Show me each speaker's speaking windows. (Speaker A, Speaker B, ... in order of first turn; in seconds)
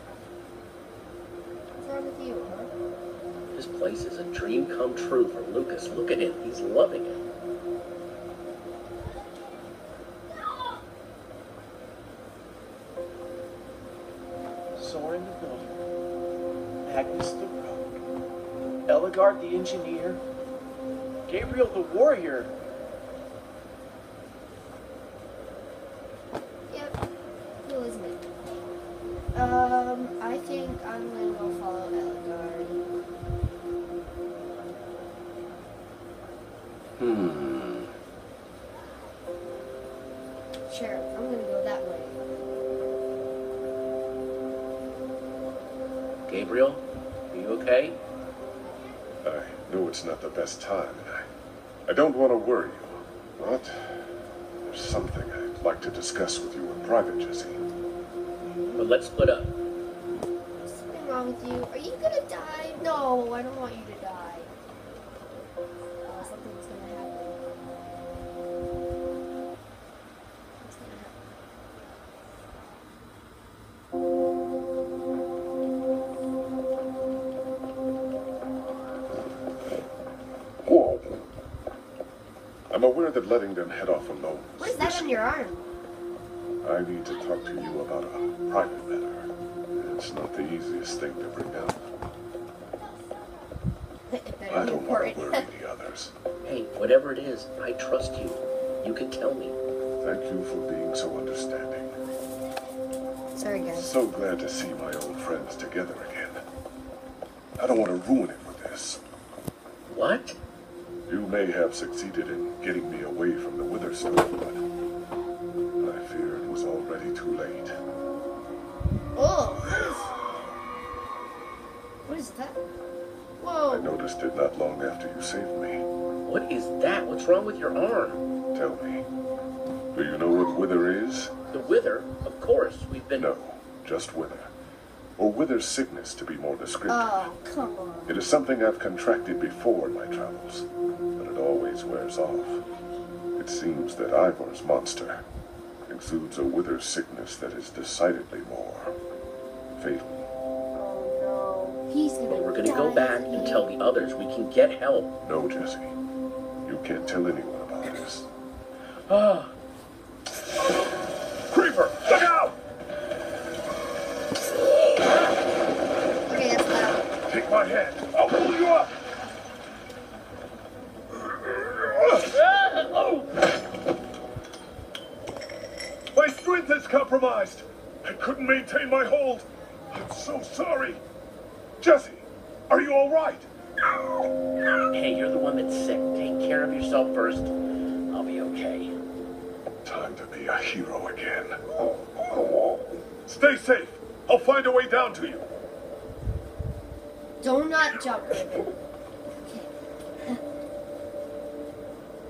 Speaker A: 1.8-2.7, 26.7-27.0, 27.6-28.2, 29.3-32.9, 40.7-42.2, 58.4-58.9, 60.6-64.5, 66.0-67.4, 70.6-71.1, 84.6-85.6, 94.1-95.5, 103.3-103.9, 119.2-120.3, 122.0-122.6, 123.4-123.9, 136.9-138.2, 150.7-153.7, 166.3-167.0, 197.4-198.8, 199.4-199.7
Speaker B: 3.5-7.2, 37.0-37.9, 46.3-48.0, 58.8-59.5, 96.4-99.6, 109.9-110.4, 126.2-128.2, 131.5-133.3, 152.3-155.1, 159.1-159.5, 172.5-173.2, 184.9-187.5, 188.1-188.9
Speaker C: 14.8-15.8, 16.8-17.9, 18.9-20.2, 21.3-22.5
Speaker D: 49.2-51.3, 51.9-57.6, 82.7-85.1, 86.6-91.8, 94.5-96.1, 100.0-101.9, 103.7-106.4, 107.6-109.0, 111.1-114.6, 115.8-117.7, 123.7-125.8, 128.5-129.1, 129.9-131.3, 133.1-134.5, 135.2-137.2, 138.1-142.6, 143.3-145.2, 145.9-148.9, 149.8-150.3, 155.2-155.9, 156.6-158.3, 161.5-162.6, 167.2-168.9, 171.4-172.2, 176.1-181.0, 181.8-183.5, 189.8-191.6, 193.2-195.5